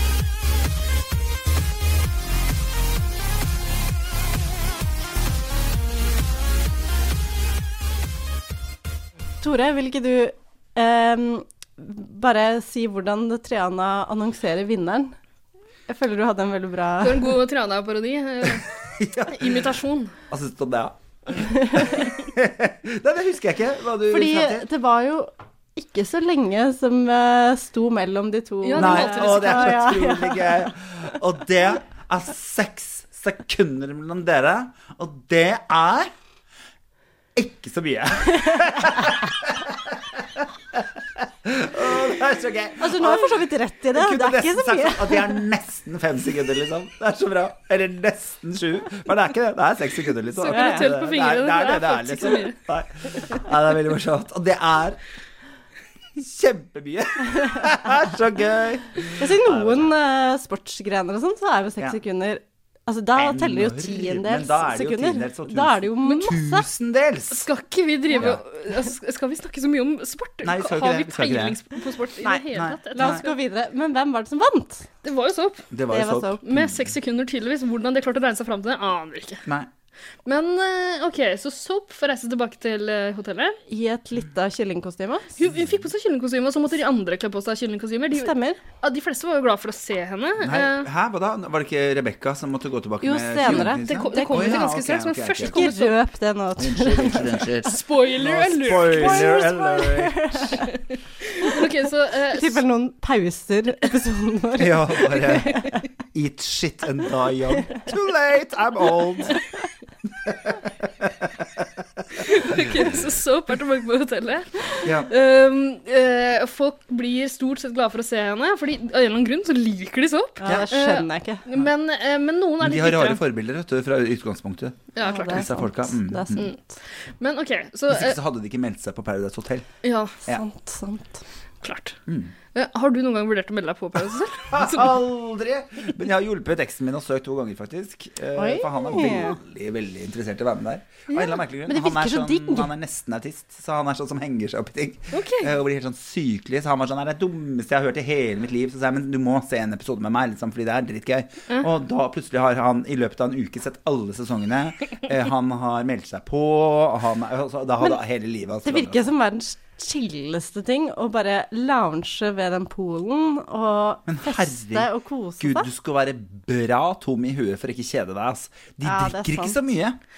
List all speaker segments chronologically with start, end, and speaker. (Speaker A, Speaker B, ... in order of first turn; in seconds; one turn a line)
Speaker A: 9.4-15.1
Speaker A: 15.9-17.3
Speaker B: 17.0-18.6
Speaker C: 19.0-19.6
Speaker B: 19.3-20.1
Speaker C: 20.3-24.7
Speaker A: 21.5-21.8
Speaker A: 24.1-30.7
Speaker B: 28.6-29.9
Speaker C: 28.7-36.1
Speaker C: 37.3-55.0
Speaker A: 42.8-45.4
Speaker B: 50.4-52.5
Speaker A: 50.5-50.9
Speaker C: 56.1-59.9
Speaker A: 59.2-66.6
Speaker C: 63.1-67.5
Speaker B: 67.3-73.4
Speaker C: 68.1-68.4
Speaker C: 70.4-71.6
Speaker A: 72.2-74.9
Speaker C: 72.5-73.2
Speaker B: 75.0-75.7
Speaker C: 75.7-76.9
Speaker A: 75.9-76.4
Speaker B: 76.4-79.4
Speaker B: 80.3-83.6
Speaker A: 83.7-85.3
Speaker B: 85.4-90.9
Speaker A: 88.1-88.6
Speaker C: 90.4-95.7
Speaker A: 93.0-94.6
Speaker B: 93.4-96.0
Speaker A: 95.4-97.4
Speaker C: 96.6-100.5
Speaker B: 97.7-99.5
Speaker A: 98.9-100.7
Speaker B: 101.3-102.6
Speaker A: 102.3-105.8
Speaker C: 104.6-105.6
Speaker C: 106.1-109.4
Speaker C: 110.2-111.6
Speaker B: 112.2-123.2
Speaker C: 114.8-115.1
Speaker A: 120.4-121.4
Speaker C: 122.6-126.5
Speaker B: 124.9-125.5
Speaker A: 125.0-126.5
Speaker B: 126.4-128.2
Speaker C: 127.9-129.7
Speaker B: 129.8-130.2
Speaker A: 130.3-131.2
Speaker B: 131.6-132.0
Speaker C: 132.1-132.3
Speaker B: 132.5-135.0
Speaker C: 134.5-159.0
Speaker A: 138.4-139.4
Speaker B: 141.1-141.4
Speaker A: 141.7-142.7
Speaker B: 145.1-145.5
Speaker A: 158.6-165.7
Speaker C: 164.1-170.0
Speaker A: 168.8-169.6